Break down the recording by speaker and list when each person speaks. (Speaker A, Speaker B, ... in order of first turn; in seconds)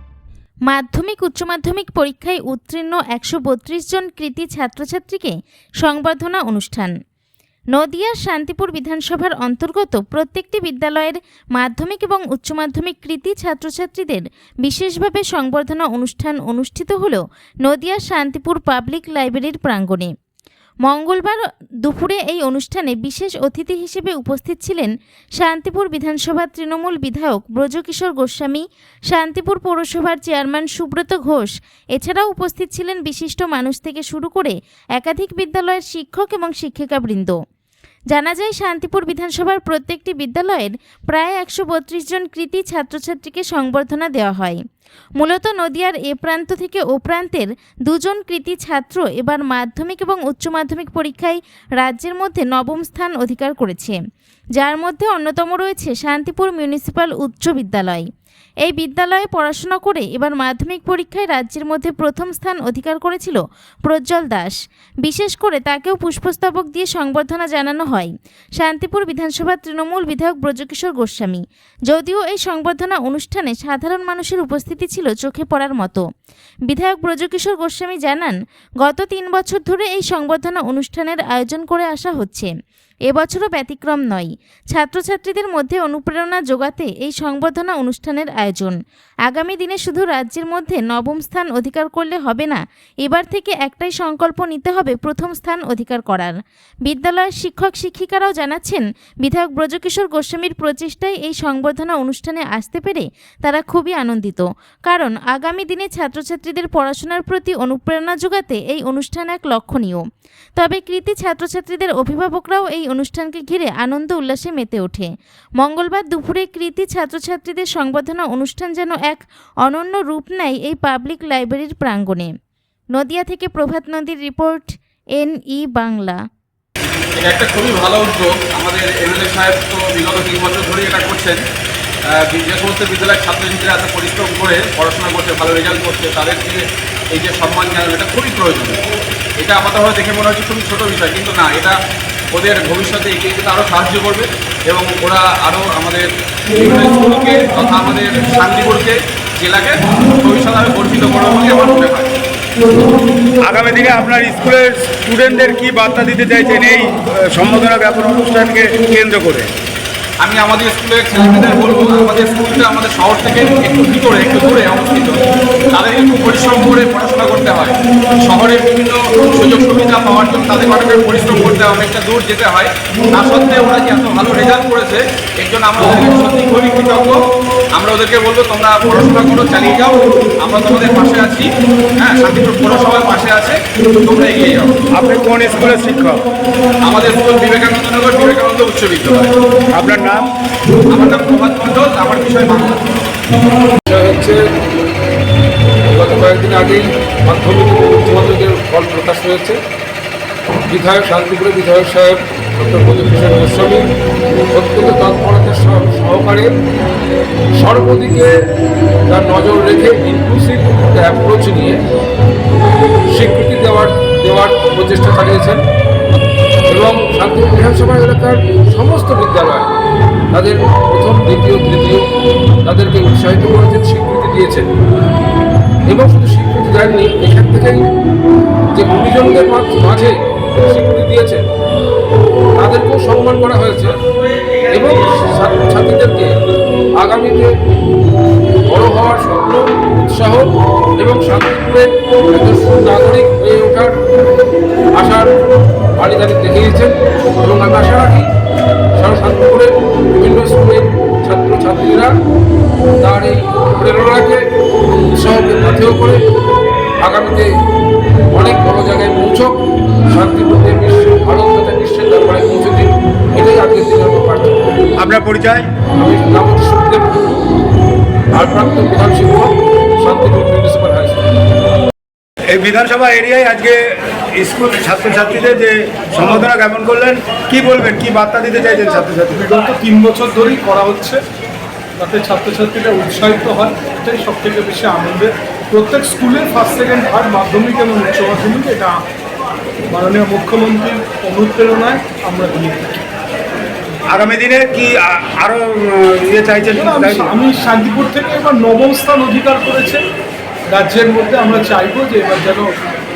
Speaker A: 0.7-6.9, 7.7-20.1, 20.9-37.3, 38.1-44.6, 45.2-54.0, 54.6-58.0, 58.6-76.0, 76.7-82.5, 83.1-88.8, 89.3-96.3, 96.8-110.0, 110.6-122.3, 122.9-126.2
Speaker B: 127.2-131.4, 132.2-138.8, 139.4-141.8, 142.3-152.1, 160.2-177.2, 177.7-184.7, 186.8-189.3, 190.9-192.8
Speaker C: 153.4-159.5, 184.9-186.2, 189.7-190.3, 265.0-265.7, 272.5-279.4, 294.1-297.3
Speaker D: 193.9-194.4, 195.9-199.6, 200.7-203.8, 204.5-206.5, 207.6-208.3, 209.1-211.8, 213.1-215.6, 216.7-219.7, 220.3-222.1, 222.6-224.7, 225.8-227.8, 228.7-231.4, 232.6-233.9, 234.7-236.3, 237.0-237.5, 238.7-240.4, 241.0-243.9, 244.9-245.3, 246.0-248.3, 248.9-252.1, 253.0-254.4, 255.1-256.2, 257.0-257.5, 258.3-259.6, 260.1-264.6, 265.9-267.4, 268.3-271.2
Speaker E: 278.9-281.2, 282.0-289.0, 289.9-293.1, 296.7-300.0, 300.7-302.7